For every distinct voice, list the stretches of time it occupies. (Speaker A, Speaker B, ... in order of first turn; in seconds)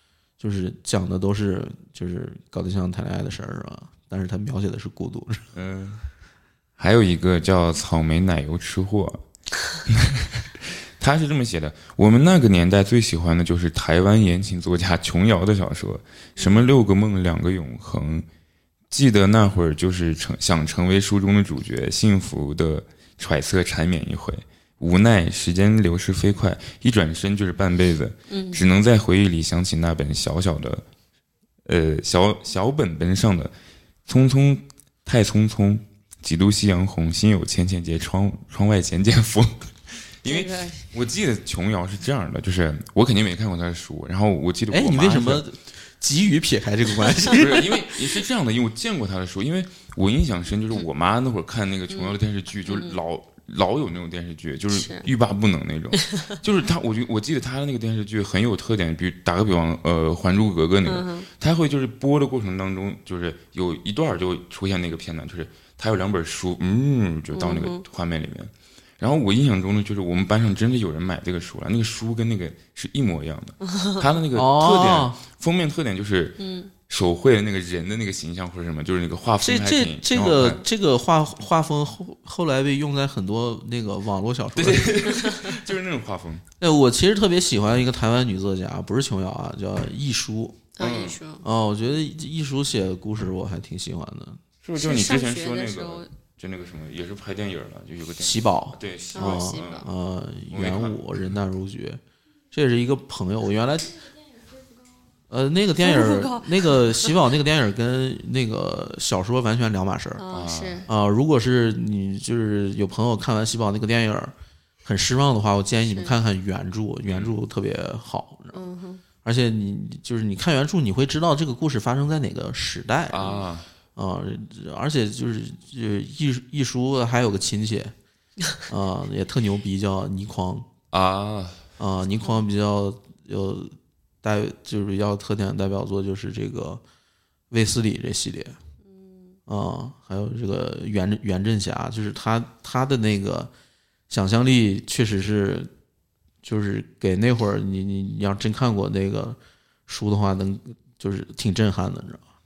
Speaker A: 0.4-5.5, 44.7-48.0, 74.3-75.2, 79.4-85.1, 86.6-90.6, 91.4-94.4, 98.2-102.0, 102.5-104.0, 105.3-110.2, 110.9-118.6, 119.2-123.4, 124.0-127.9, 128.7-130.7, 131.8-136.8, 137.5-138.6, 139.5-143.5, 144.1-145.7, 146.4-152.2
Speaker B: 5.5-6.0, 6.8-9.2, 9.8-18.2, 18.9-30.8, 31.6-33.5, 34.1-45.4, 47.3-80.6, 84.5-86.4, 90.8-91.2, 94.6-99.8, 100.5-101.0, 110.3-110.8, 117.1-117.3, 123.1-123.7, 130.9-131.6
Speaker C: 16.4-16.6, 28.3-28.6, 40.2-40.8, 51.9-52.2, 52.7-53.0, 54.7-55.1, 56.0-56.4, 60.8-61.3, 67.3-67.8, 73.6-74.0, 76.4-76.7, 85.2-85.5, 90.8-91.4, 94.8-96.1, 99.1-99.9, 105.8-107.1, 110.2-110.9, 115.9-116.2, 118.5-119.0, 138.8-139.4